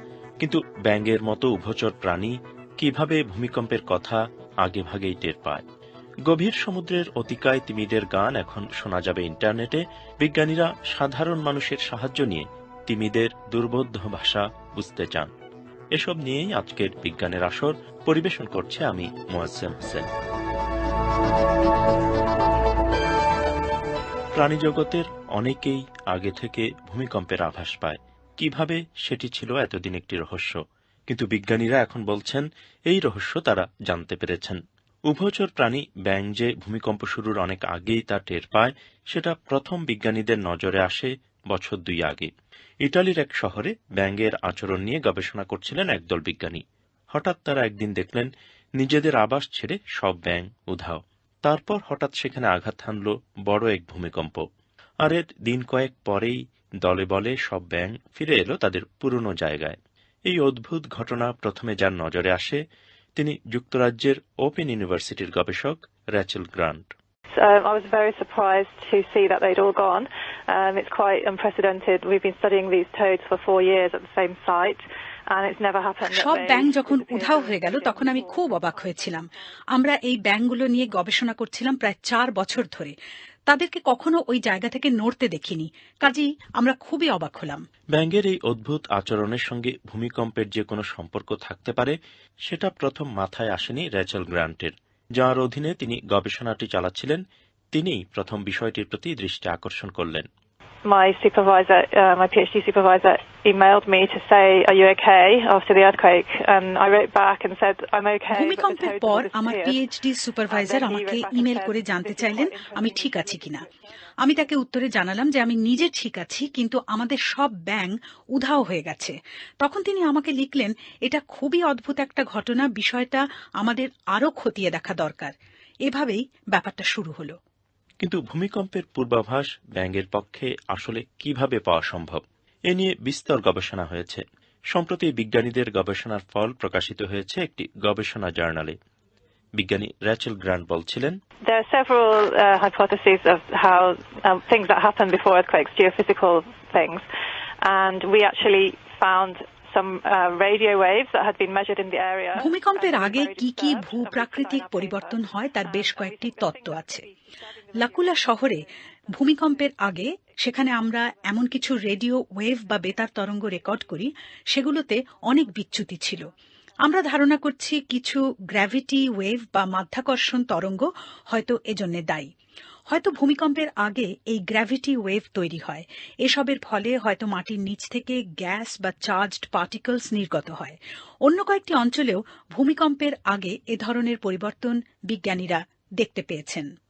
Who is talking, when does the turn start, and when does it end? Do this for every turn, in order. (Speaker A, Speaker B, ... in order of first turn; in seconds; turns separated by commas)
Speaker A: 0.4-5.6, Speaker A: 6.3-15.3, Speaker A: 15.9-20.1, Speaker A: 24.4-30.6, Speaker A: 31.1-34.6, Speaker A: 35.1-42.3, Speaker A: 42.8-46.6, Speaker A: 47.1-54.4, Speaker A: 55.0-59.8, Speaker A: 60.3-62.6, Speaker A: 63.2-66.9, Speaker B: 67.3-79.3, Speaker C: 76.1-82.9, Speaker C: 83.5-87.6, Speaker A: 87.9-91.9, Speaker A: 92.5-97.2, Speaker A: 97.7-100.3, Speaker B: 100.8-109.8, Speaker C: 108.3-113.7, Speaker B: 110.5-113.8, Speaker C: 114.2-125.3, Speaker C: 125.9-127.3, Speaker A: 128.0-134.2, Speaker A: 134.7-138.7, Speaker A: 139.6-141.1, Speaker B: 141.4-147.1, Speaker B: 147.6-158.6, Speaker C: 152.4-157.1, Speaker C: 157.8-158.6, Speaker C: 159.2-166.2, Speaker B: 159.2-159.7, Speaker C: 166.8-172.3, Speaker C: 172.9-180.8, Speaker C: 181.3-186.7